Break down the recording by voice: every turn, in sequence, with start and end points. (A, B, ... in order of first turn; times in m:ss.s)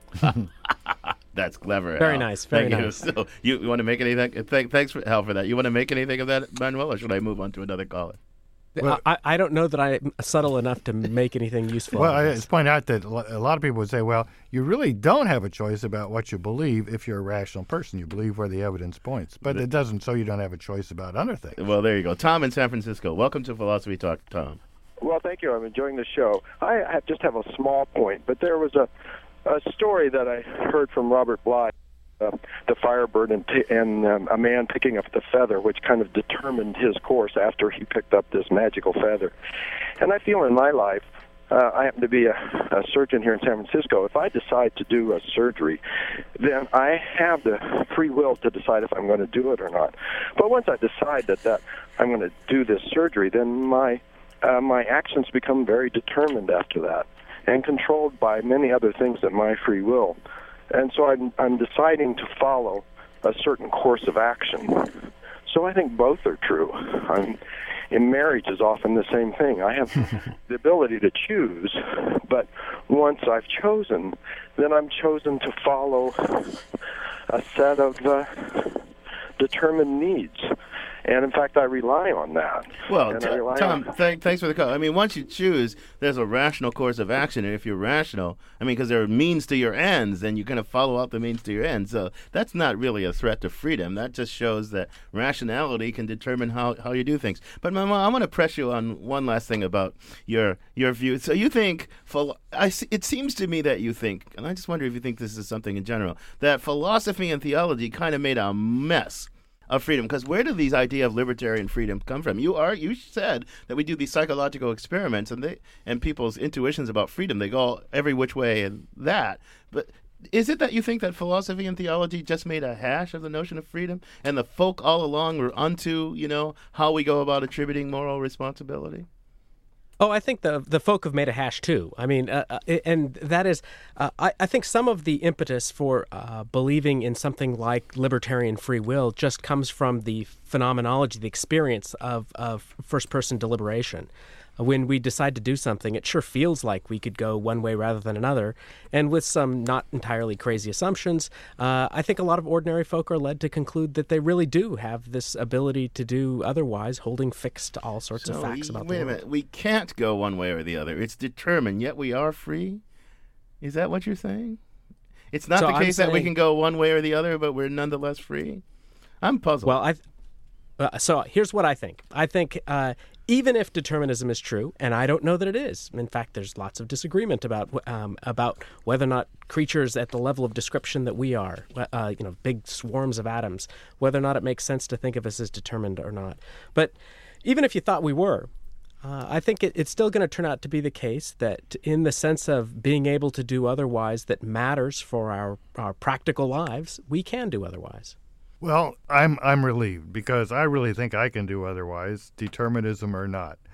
0:00.2-0:08.2 A
0:02.0-0:03.0 B
0:08.8-0:12.4 B
0:11.9-0:21.6 C
0:21.6-0:24.6 A
0:25.0-0:28.9 D
0:29.4-0:39.3 D
0:40.0-0:45.8 D
0:46.4-1:00.2 D
1:00.7-1:07.4 D
1:07.9-1:16.6 D
1:17.3-1:18.8 D
1:19.4-1:20.5 D
1:21.0-1:23.9 D
1:22.9-2:09.1 A
2:10.0-2:39.2 B
2:38.2-2:42.8 A
2:43.6-2:44.6 A
2:45.3-2:48.6 A
2:45.6-2:46.3 B
2:49.2-2:49.7 A
2:49.6-2:50.0 B
2:50.8-3:08.5 B
3:09.0-3:18.2 B
3:18.6-3:23.6 C